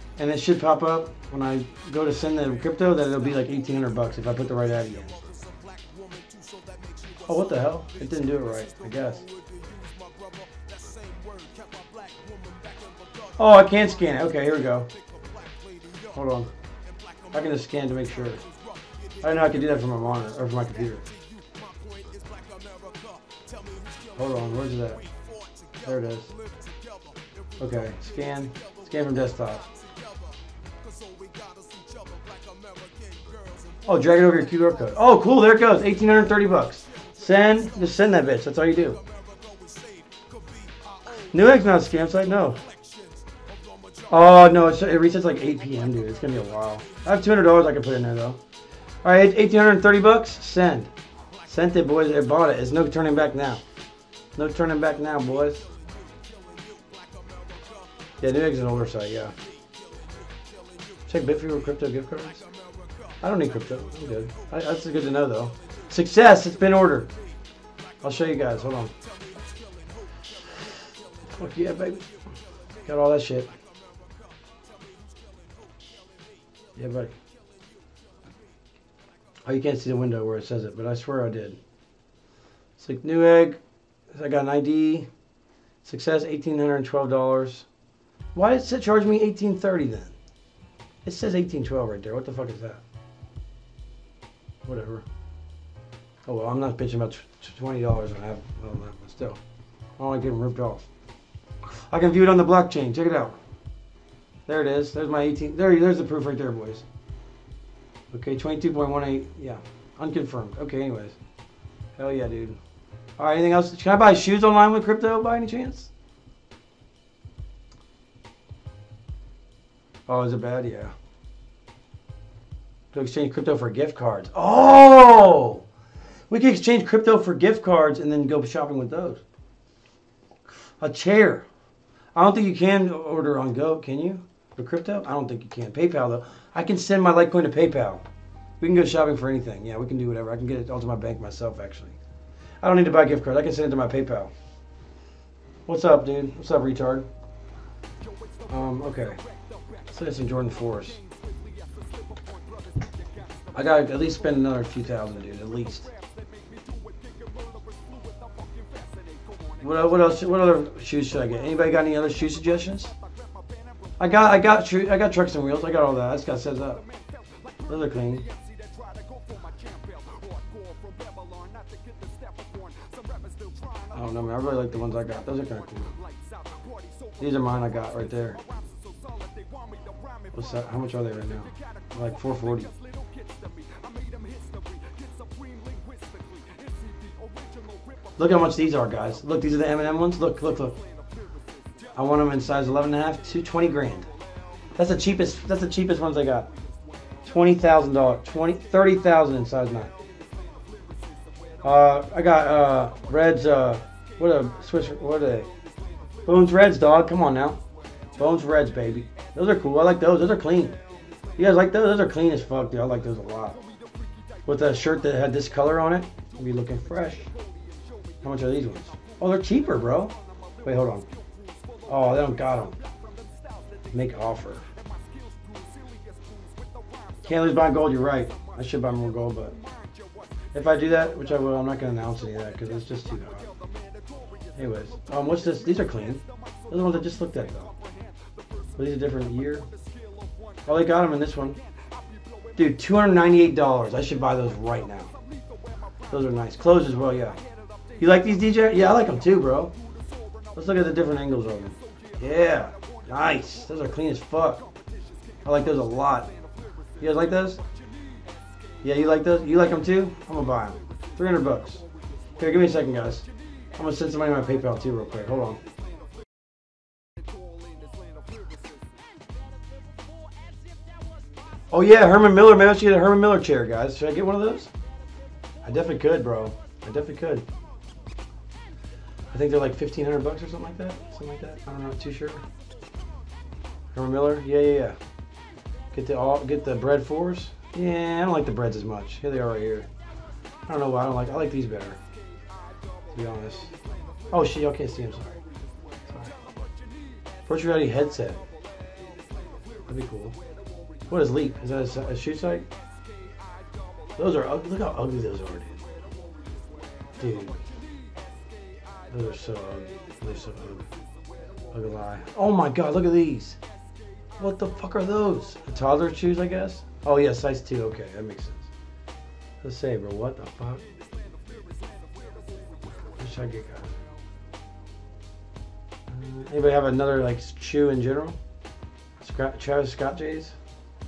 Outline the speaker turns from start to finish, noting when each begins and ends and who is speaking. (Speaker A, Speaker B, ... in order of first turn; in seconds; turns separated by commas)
Speaker A: 0.2-5.2, Speaker A: 7.3-9.2, Speaker A: 13.4-14.9, Speaker A: 16.1-16.5, Speaker A: 17.3-18.4, Speaker A: 19.2-21.0, Speaker A: 24.1-25.0, Speaker A: 25.8-26.3, Speaker A: 27.6-29.6, Speaker A: 33.9-39.0, Speaker A: 41.3-42.6, Speaker A: 44.1-48.4, Speaker A: 49.0-50.9, Speaker A: 51.5-53.6, Speaker A: 54.4-55.6, Speaker A: 58.2-59.3, Speaker A: 61.1-62.4, Speaker A: 63.2-67.1, Speaker A: 68.0-68.9, Speaker A: 71.3-72.1, Speaker A: 72.8-73.5, Speaker A: 76.8-77.1, Speaker A: 79.4-81.6, Speaker A: 82.8-83.6, Speaker A: 84.1-85.1, Speaker A: 85.8-87.7, Speaker A: 88.3-90.1, Speaker A: 91.0-92.8, Speaker A: 94.6-95.0, Speaker A: 96.2-99.4, Speaker A: 100.0-100.8, Speaker A: 101.9-103.4, Speaker A: 104.5-106.8, Speaker A: 108.1-111.2, Speaker A: 112.0-112.6, Speaker A: 113.2-115.9, Speaker A: 120.1-120.9, Speaker A: 122.9-125.6, Speaker A: 126.3-129.2, Speaker A: 130.8-131.4, Speaker A: 132.1-138.0, Speaker A: 138.6-141.9, Speaker A: 142.6-144.3, Speaker A: 145.7-147.1, Speaker A: 148.5-149.2, Speaker A: 149.9-151.0, Speaker A: 153.5-155.9, Speaker A: 159.6-162.9, Speaker A: 164.0-166.8, Speaker A: 167.7-168.2, Speaker A: 173.9-175.9, Speaker A: 177.2-178.4, Speaker A: 180.3-182.7, Speaker A: 188.2-190.8, Speaker A: 191.9-194.1, Speaker A: 194.8-196.5, Speaker A: 197.2-199.9, Speaker A: 201.6-205.5, Speaker A: 206.2-207.6, Speaker A: 208.2-210.8, Speaker A: 211.4-213.6, Speaker A: 214.4-217.3, Speaker A: 218.2-221.1, Speaker A: 221.9-222.8, Speaker A: 223.9-224.6, Speaker A: 227.2-229.6, Speaker A: 230.5-233.5, Speaker A: 234.5-237.7, Speaker A: 238.8-239.7, Speaker A: 240.7-241.6, Speaker A: 242.6-245.1, Speaker A: 246.1-247.4, Speaker A: 248.0-249.7, Speaker A: 250.5-254.6, Speaker A: 255.4-256.3, Speaker A: 257.0-257.6, Speaker A: 258.8-261.8, Speaker A: 262.4-263.2, Speaker A: 263.8-265.6, Speaker A: 271.7-274.7, Speaker A: 275.6-277.4, Speaker A: 279.3-282.4, Speaker A: 283.9-285.0, Speaker A: 285.9-289.9, Speaker A: 290.7-292.0, Speaker A: 293.1-293.7, Speaker A: 294.3-295.4, Speaker A: 297.5-298.4, Speaker A: 299.9-300.4, Speaker A: 301.1-302.6, Speaker A: 304.2-305.8, Speaker A: 307.2-307.6, Speaker A: 309.1-310.9, Speaker A: 311.7-313.6, Speaker A: 314.4-318.7, Speaker A: 319.6-320.8, Speaker A: 323.1-323.9, Speaker A: 326.1-328.4, Speaker A: 329.2-330.5